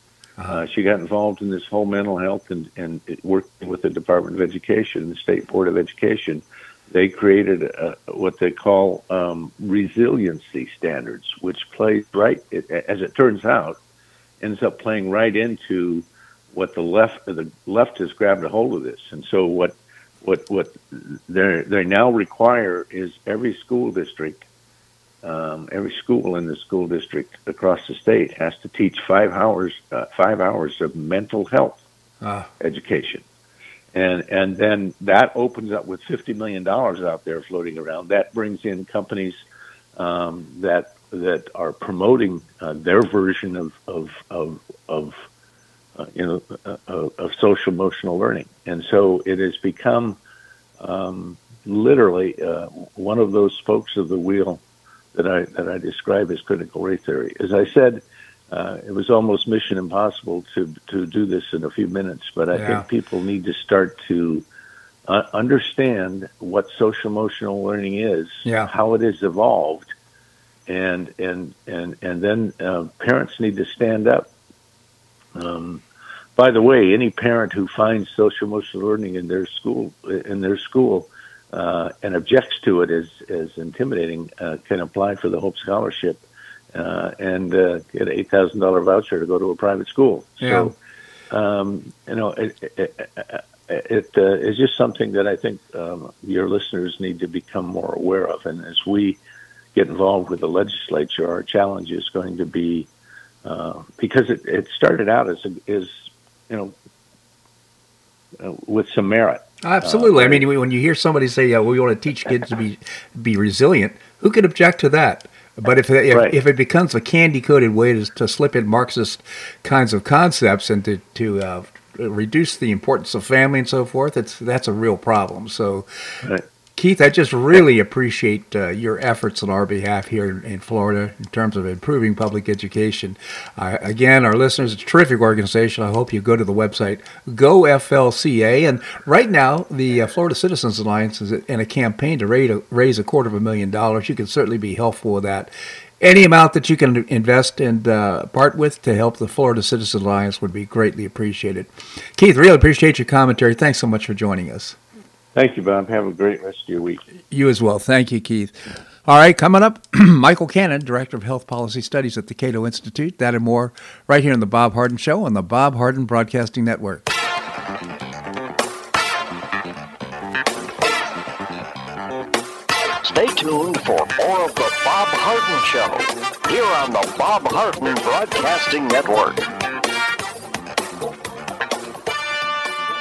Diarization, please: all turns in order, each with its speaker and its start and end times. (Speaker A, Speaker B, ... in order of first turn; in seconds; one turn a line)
Speaker A: 0.5-13.8
Speaker A: 14.4-24.4
Speaker A: 25.2-31.8
Speaker B: 32.2-32.5
Speaker A: 32.6-33.2
Speaker A: 33.9-39.4
Speaker A: 40.0-45.1
Speaker A: 46.0-50.2
Speaker A: 50.8-54.6
Speaker A: 55.1-64.5
Speaker B: 62.5-62.8
Speaker A: 65.1-69.9
Speaker B: 68.4-68.7
Speaker A: 70.7-74.3
Speaker A: 75.3-75.8
Speaker A: 76.3-90.7
Speaker B: 90.4-90.7
Speaker A: 91.3-99.2
Speaker A: 99.7-102.9
Speaker A: 103.4-106.8
Speaker A: 108.4-110.4
Speaker B: 109.6-125.8
Speaker A: 116.1-116.4
Speaker B: 126.8-154.8
Speaker A: 155.3-157.0
Speaker B: 157.3-158.5
Speaker B: 159.0-167.1
Speaker C: 173.0-179.5